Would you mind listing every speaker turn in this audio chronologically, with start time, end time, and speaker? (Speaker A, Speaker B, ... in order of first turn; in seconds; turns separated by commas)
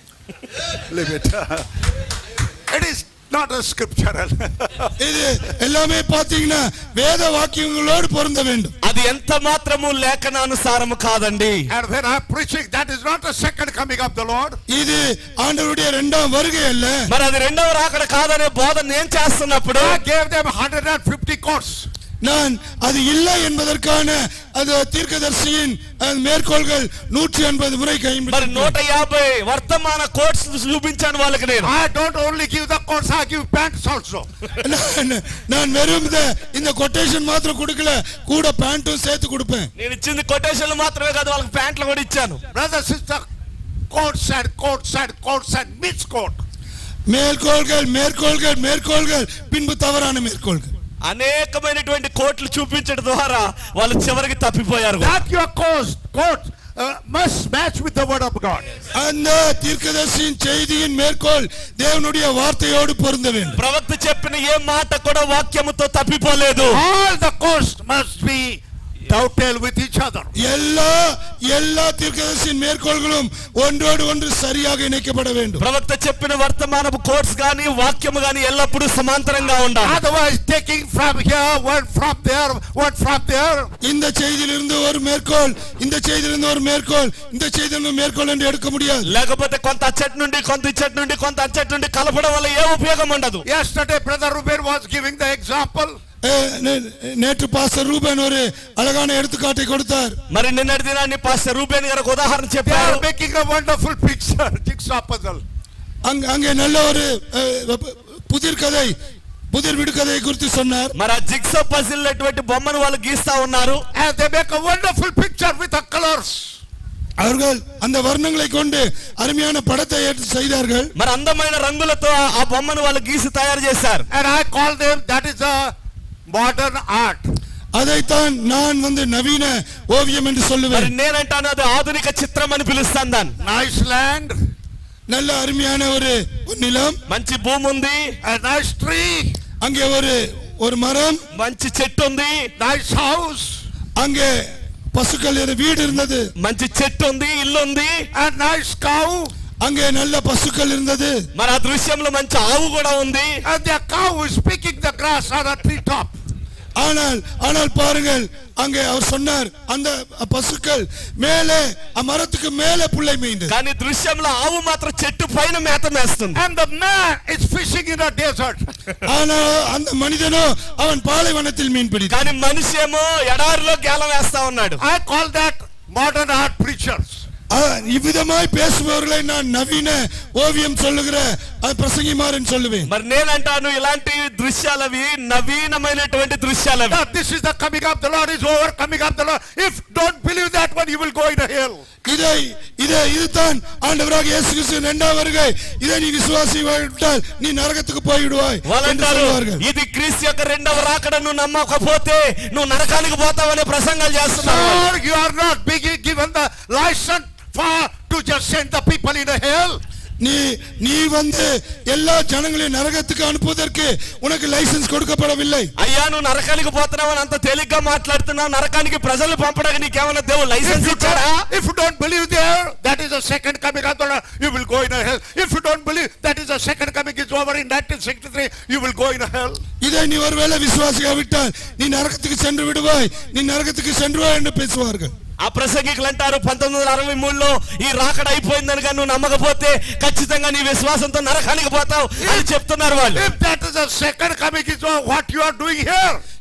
Speaker A: 0.8-1.6, Speaker A: 2.7-4.9, Speaker B: 5.0-8.7, Speaker C: 8.8-11.7, Speaker A: 11.7-14.6, Speaker B: 14.7-17.0, Speaker C: 17.1-20.0, Speaker A: 19.7-21.9, Speaker B: 22.2-28.7, Speaker C: 28.3-31.7, Speaker A: 31.6-34.3, Speaker B: 34.6-39.7, Speaker C: 39.8-42.4, Speaker A: 42.5-43.2, Speaker A: 43.9-46.4, Speaker B: 47.1-50.7, Speaker C: 51.0-55.2, Speaker A: 55.0-58.6, Speaker B: 59.0-63.6, Speaker C: 63.5-66.8, Speaker A: 66.7-70.3, Speaker B: 70.4-75.6, Speaker C: 75.6-80.0, Speaker A: 79.8-83.7, Speaker B: 83.8-89.1, Speaker C: 89.0-93.4, Speaker A: 93.5-96.0, Speaker B: 96.2-100.2, Speaker C: 100.3-103.0, Speaker A: 102.6-105.4, Speaker B: 106.0-108.9, Speaker B: 109.5-110.9, Speaker C: 110.9-113.8, Speaker A: 113.9-116.6, Speaker B: 117.2-120.9, Speaker C: 121.0-124.0, Speaker A: 124.1-125.7, Speaker A: 126.3-127.2, Speaker B: 127.7-130.9, Speaker C: 130.7-133.3, Speaker A: 133.4-134.3, Speaker B: 135.1-137.0, Speaker C: 137.1-138.1, Speaker A: 138.2-139.3, Speaker B: 139.6-141.2, Speaker C: 141.3-142.5, Speaker A: 142.6-143.6, Speaker B: 144.0-144.4, Speaker B: 144.9-146.3, Speaker C: 146.4-147.9, Speaker A: 148.1-149.3, Speaker B: 149.6-151.2, Speaker C: 151.3-153.3, Speaker A: 153.4-156.1, Speaker B: 156.8-163.5, Speaker C: 163.5-166.4, Speaker A: 166.3-168.6, Speaker B: 169.0-172.2, Speaker C: 172.1-174.8, Speaker A: 174.8-177.2, Speaker B: 177.5-182.9, Speaker C: 182.9-187.0, Speaker A: 186.9-191.8, Speaker B: 192.1-199.6, Speaker C: 198.6-204.8, Speaker A: 204.4-209.8, Speaker B: 210.2-215.7, Speaker C: 215.8-221.4, Speaker A: 220.6-229.6, Speaker B: 229.8-235.1, Speaker C: 235.4-243.2, Speaker A: 242.2-242.5, Speaker A: 243.1-246.2